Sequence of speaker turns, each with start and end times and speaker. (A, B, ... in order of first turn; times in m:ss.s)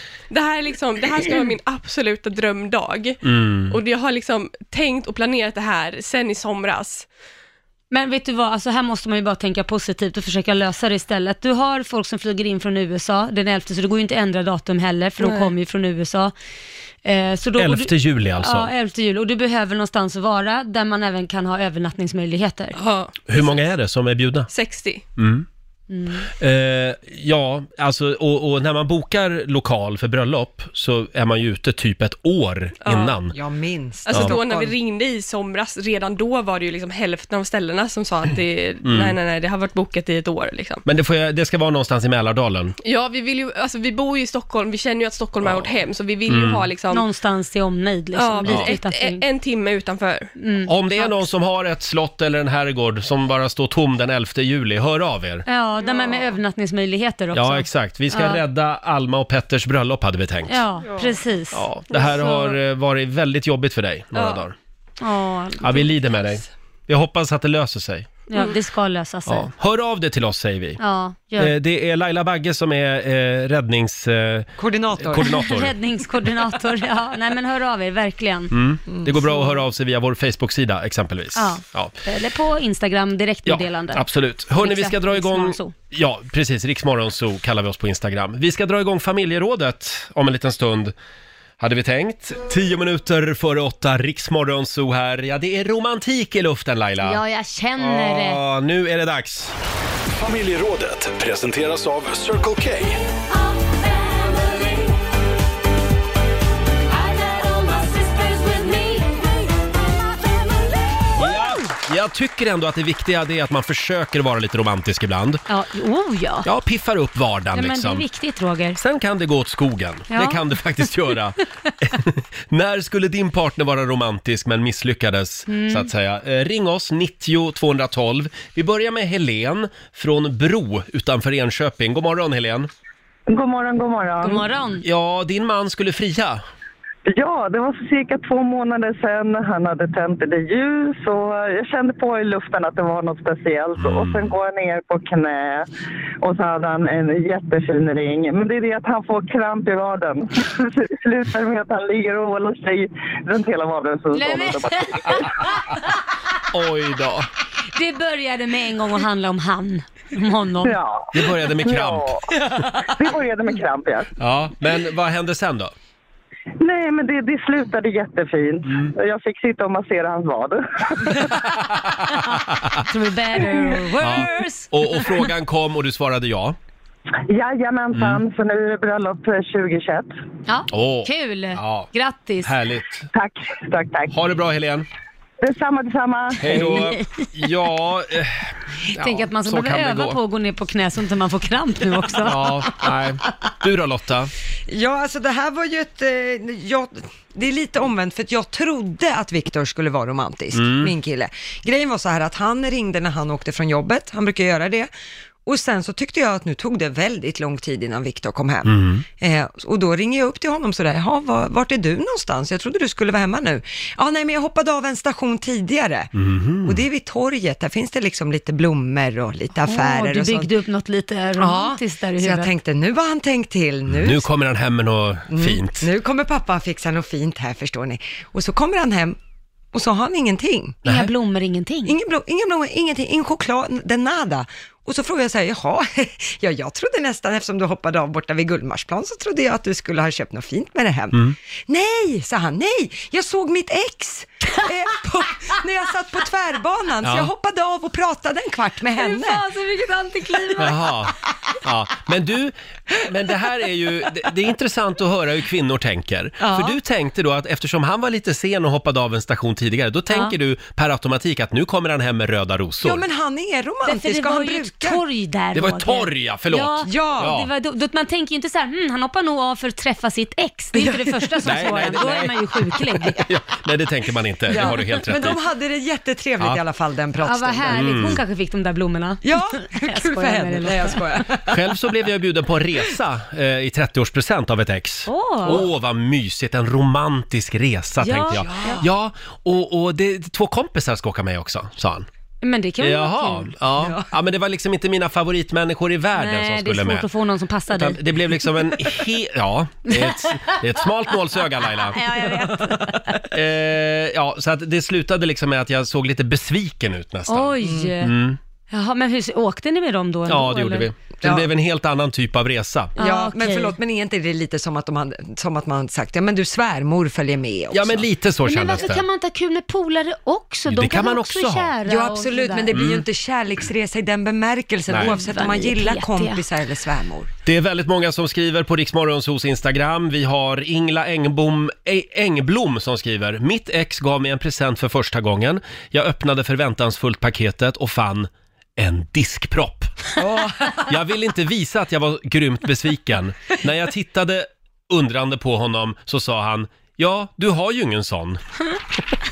0:00.3-0:07.1 A
0:03.2-0:03.8 B
0:07.9-0:16.3 C
0:15.2-0:15.5 A
0:17.0-0:22.8 C
0:17.6-0:18.7 B
0:22.8-0:23.6 A
0:23.3-0:24.5 B
0:24.5-0:25.0 A
0:25.2-0:25.5 B
0:25.9-0:26.3 C
0:26.4-0:33.4 B
0:32.8-0:33.1 A
0:33.3-0:34.7 D
0:34.1-0:40.8 A
0:38.8-0:39.2 B
0:40.8-0:42.8 B
0:42.8-0:47.0 A
0:45.4-0:45.7 B
0:46.3-0:46.7 B
0:46.9-0:49.2 C
0:48.2-0:50.3 A
0:48.4-0:48.7 B
0:50.4-0:51.2 C
0:50.7-0:55.4 B
0:55.5-0:58.4 C
0:57.3-1:00.6 B
1:00.5-1:02.6 C
1:01.5-1:04.6 B
1:04.1-1:04.4 A
1:05.0-1:06.1 C
1:05.6-1:08.1 B
1:08.3-1:09.5 C
1:09.3-1:10.8 B
1:10.8-1:11.6 C
1:11.4-1:15.8 B
1:14.6-1:15.3 D
1:15.2-1:18.5 C
1:18.5-1:21.9 B
1:18.9-1:19.1 D
1:21.4-1:25.7 C
1:23.5-1:31.0 B
1:31.6-1:37.2 B
1:37.0-1:38.4 C
1:37.8-1:39.6 B
1:40.1-1:43.0 E
1:43.7-1:44.8 C
1:47.1-1:49.2 C
1:51.2-1:55.4 B
1:55.5-1:56.5 C
1:56.4-1:58.0 B
1:57.6-1:58.8 C
1:58.8-2:12.7 B
2:00.1-2:00.4 C
2:05.5-2:05.9 C
2:13.3-2:14.5 F
2:14.2-2:14.8 C
2:14.8-2:16.4 B
2:17.1-2:25.7 F
2:23.8-2:24.4 B
2:26.2-2:35.5 F
2:34.1-2:35.8 C
2:36.5-2:37.3 B
2:37.7-2:40.8 C
2:40.6-2:44.1 F
2:41.1-2:42.1 B
2:44.2-2:45.7 B
2:46.6-2:51.4 F
2:48.7-2:48.9 B
2:51.6-2:52.8 B
2:52.2-2:54.7 C
2:54.0-2:56.6 B
2:57.3-3:00.1 F
2:58.0-2:58.2 B
3:00.5-3:02.5 C
3:00.7-3:01.9 B
3:02.4-3:03.1 B
3:03.1-3:04.2 F
3:04.1-3:04.9 B
3:05.4-3:06.8 F
3:06.4-3:10.2 B
3:06.7-3:07.0 C
3:09.0-3:12.7 C
3:12.2-3:14.3 B
3:14.7-3:24.9 D
3:20.5-3:20.9 B
3:25.5-3:36.1 D
3:28.7-3:29.0 B
3:36.2-3:36.8 B
3:36.6-3:40.5 D
3:39.6-3:42.5 C
3:41.4-3:44.3 D
3:43.9-3:45.9 B
3:45.3-3:49.2 D
3:49.7-3:50.8 D
3:50.8-3:51.1 B
3:50.8-3:52.0 C
3:51.9-4:09.5 D
4:07.0-4:07.3 B
4:09.0-4:10.8 C
4:10.6-4:23.0 B
4:16.4-4:16.8 D
4:22.8-4:25.0 D
4:23.8-4:33.2 C
4:25.6-4:27.5 B
4:26.8-4:27.3 D
4:30.8-4:31.3 D
4:31.4-4:32.4 B
4:33.2-4:35.4 B
4:34.5-4:38.2 D
4:37.2-4:41.2 C
4:37.7-4:38.2 B
4:39.2-4:41.7 D
4:41.5-4:52.1 B
4:45.1-4:45.6 C
4:48.0-4:48.8 C
4:48.4-4:48.9 D
4:52.4-4:53.5 C
4:52.8-4:57.1 B
4:53.8-4:54.1 D
4:56.2-4:58.0 C
4:57.7-5:02.0 B
4:59.9-5:00.6 C
5:01.8-5:03.2 C
5:02.6-5:03.0 D
5:03.3-5:08.4 B
5:07.3-5:08.2 C
5:07.6-5:07.9 D
5:08.7-5:10.9 C
5:10.3-5:13.0 B
5:11.2-5:11.5 D
5:13.0-5:13.8 C
5:13.0-5:18.1 D
5:17.7-5:19.1 B
5:18.4-5:22.8 C
5:20.7-5:21.8 B
5:21.8-5:27.3 D
5:22.7-5:23.0 B
5:25.0-5:26.4 C
5:27.5-5:48.4 B
5:40.2-5:40.8 D